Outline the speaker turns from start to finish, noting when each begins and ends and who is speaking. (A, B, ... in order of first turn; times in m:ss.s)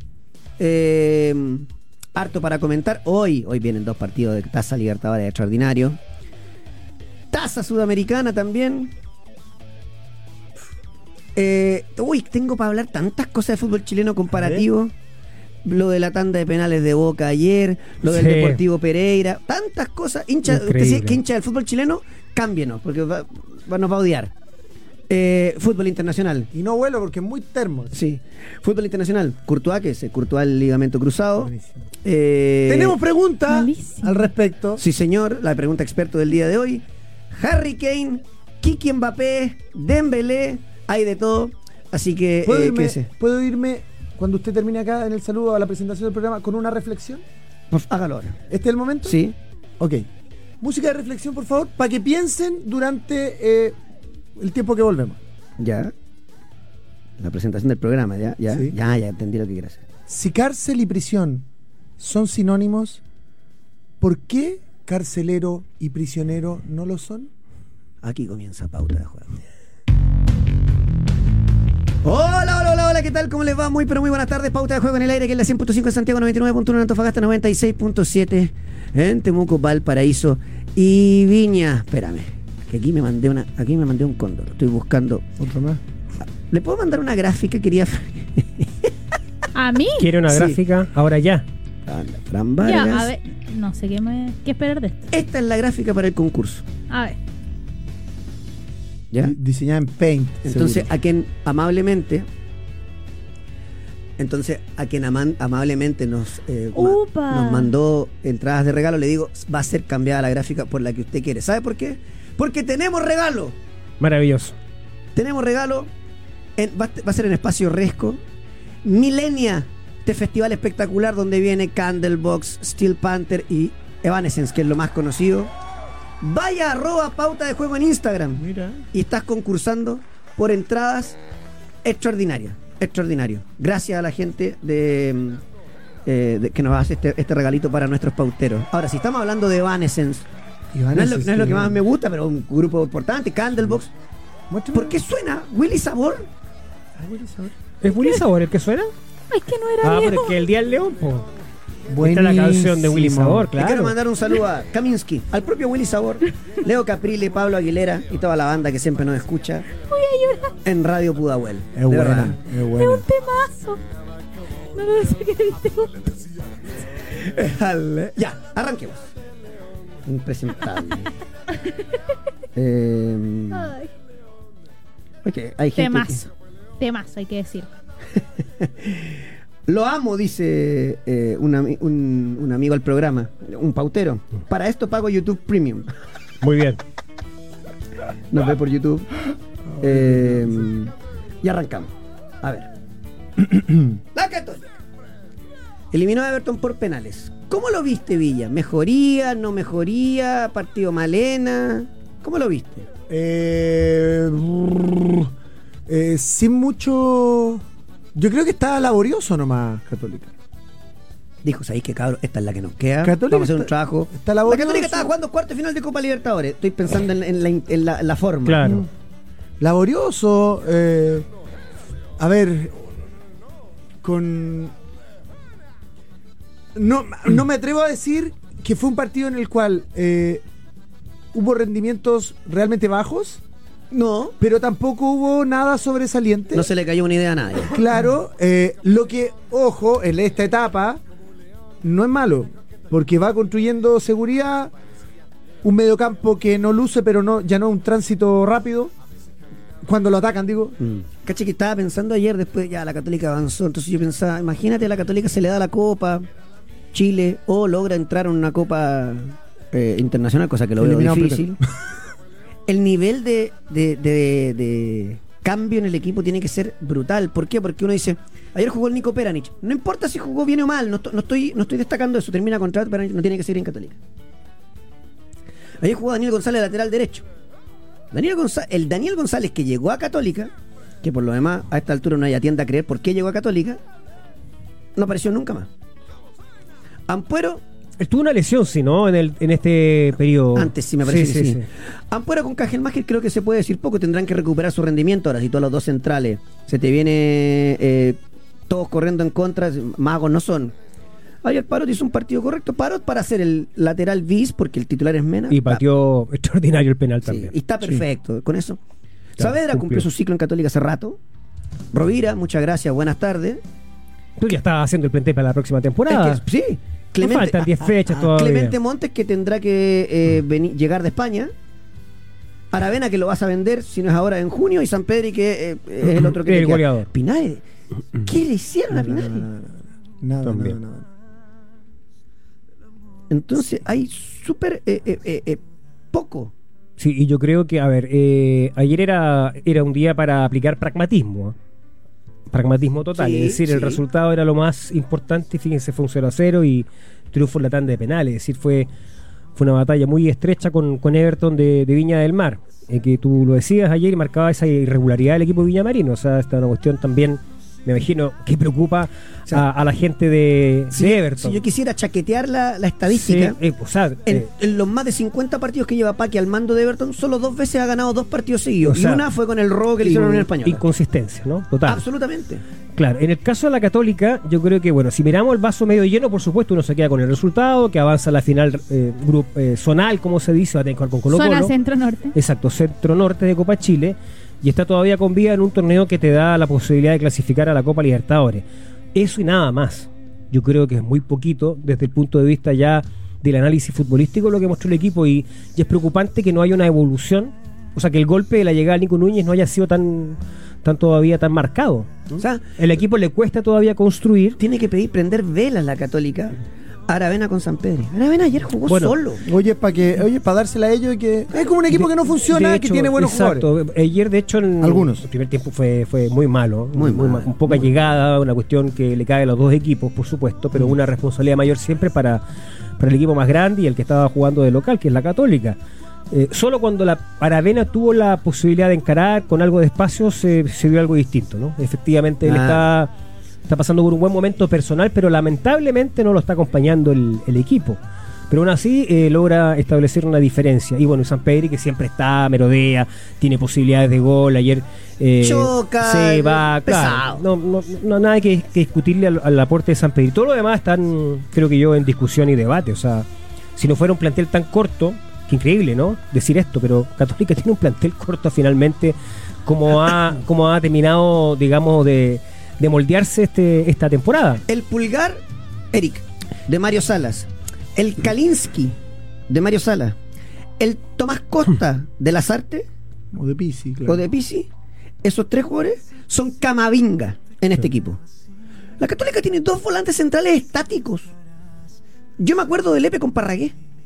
0:00.6-0:06.0 A
0:07.3-0:08.9 A
0:11.3-0:14.9 A
0:14.3-0:14.6 B
0:15.6-0:24.3 A
0:18.0-0:18.6 C
0:20.4-0:21.2 C
0:25.1-0:26.5 A
0:26.5-0:27.9 B
0:27.9-0:31.5 A
0:31.4-0:31.8 B
0:32.0-0:33.0 A
0:32.7-0:34.8 B
0:33.5-0:34.2 D
0:34.8-0:43.0 A
0:42.4-0:47.2 B
0:47.7-0:48.4 A
0:48.5-0:49.2 B
0:49.0-0:49.3 A
0:49.8-0:50.1 B
0:50.6-0:53.8 B
0:54.4-0:55.2 B
0:55.6-0:55.9 A
0:57.2-0:59.8 A
0:58.5-0:58.7 B
1:00.1-1:01.4 B
1:02.0-1:03.0 B
1:04.0-1:07.3 B
1:08.0-1:09.3 A
1:12.0-1:25.2 A
1:25.4-1:25.8 B
1:26.5-1:28.9 A
1:29.5-1:30.1 D
1:30.0-1:31.4 C
1:30.3-1:30.6 A
1:31.8-1:33.1 A
1:32.6-1:35.1 D
1:35.1-1:36.6 A
1:36.9-1:37.2 D
1:39.2-1:40.9 B
1:40.4-1:42.3 A
1:44.2-1:53.6 A
1:46.7-1:47.7 D
1:54.0-1:54.5 C
1:55.1-1:55.9 A
1:56.6-1:58.2 A
1:58.8-2:05.5 A
2:06.2-2:08.4 A
2:08.4-2:08.8 B
2:08.9-2:11.2 A
2:11.8-2:15.4 A
2:16.0-2:20.2 A
2:20.7-2:21.8 B
2:20.9-2:23.9 A
2:24.5-2:25.0 B
2:24.7-2:26.3 A
2:27.0-2:27.5 B
2:27.8-2:28.9 C
2:29.3-2:30.4 D
2:29.8-2:31.3 C
2:31.9-2:33.5 B
2:32.0-2:33.9 C
2:33.5-2:39.7 A
2:39.8-2:40.5 D
2:40.6-2:42.4 A
2:41.7-2:43.1 B
2:42.7-2:43.8 D
2:44.7-2:46.0 D
2:47.1-2:49.1 A
2:50.0-2:51.1 A
2:52.5-2:53.7 A
2:53.5-2:53.9 D
2:55.2-2:56.2 A
2:55.8-2:57.7 D
2:58.6-3:05.9 A
3:06.4-3:06.8 C
3:08.3-3:09.1 A
3:09.7-3:10.7 B
3:09.8-3:12.7 A
3:13.4-3:13.8 B
3:14.1-3:14.8 A
3:15.9-3:22.9 A
3:23.1-3:25.3 B
3:25.9-3:27.6 B
3:28.1-3:30.3 B
3:31.4-3:38.8 A
3:33.0-3:35.1 B
3:38.4-3:38.8 C
3:38.6-3:38.9 B
3:39.6-3:41.2 B
3:42.2-3:42.8 B
3:44.0-3:44.7 B
3:46.7-3:50.4 B
3:51.3-3:53.4 B
3:53.9-3:54.4 A
3:54.4-3:56.7 B
3:56.5-3:57.8 A
3:57.7-4:01.0 B
4:01.8-4:04.7 B
4:05.6-4:08.9 B
4:09.8-4:10.8 B
4:10.8-4:16.3 A
4:16.9-4:21.6 A
4:20.8-4:21.6 B
4:22.7-4:34.0 A
4:35.8-4:37.2 A
4:38.1-4:40.5 A
4:41.0-4:43.8 A
4:45.0-4:45.7 A
4:47.1-4:47.6 A
4:48.0-4:51.6 C
4:50.5-5:00.7 A
5:01.4-5:05.8 A
5:05.5-5:08.0 C
5:07.2-5:08.8 A
5:09.4-5:11.2 A
5:09.4-5:10.1 C
5:11.9-5:13.6 A
5:14.4-5:16.4 C
5:16.1-5:21.5 A
5:17.2-5:18.8 C
5:22.7-5:27.6 A
5:26.0-5:27.1 C
5:28.2-5:29.4 A
5:28.9-5:31.1 B
5:30.4-5:30.8 C
5:33.3-5:35.6 A
5:36.1-5:36.5 A
5:37.0-5:41.6 C
5:42.5-5:48.9 C
5:43.2-5:44.0 A
5:49.6-6:01.6 C
6:00.9-6:03.6 A
6:03.1-6:04.5 C
6:04.3-6:10.8 A
6:08.8-6:09.2 C
6:10.0-6:12.0 C
6:11.8-6:12.6 A
6:13.0-6:21.7 C
6:21.3-6:22.3 D
6:22.3-6:28.6 C
6:29.1-6:44.6 C
6:42.4-6:42.6 A
6:44.6-6:49.4 A
6:48.8-6:49.2 C
6:49.4-6:53.7 B
6:51.9-7:02.4 C
6:54.8-6:55.2 B
6:56.9-6:57.9 A
7:03.0-7:05.8 C
7:06.3-7:13.1 C
7:12.4-7:12.8 A
7:13.7-7:44.6 C
7:25.4-7:27.4 A
7:44.7-7:49.0 A
7:49.5-7:50.2 A
7:50.8-7:52.9 A
7:53.3-7:54.2 B
7:54.1-7:54.7 A
7:55.2-7:58.2 A
7:59.0-8:01.3 A
8:02.4-8:03.7 A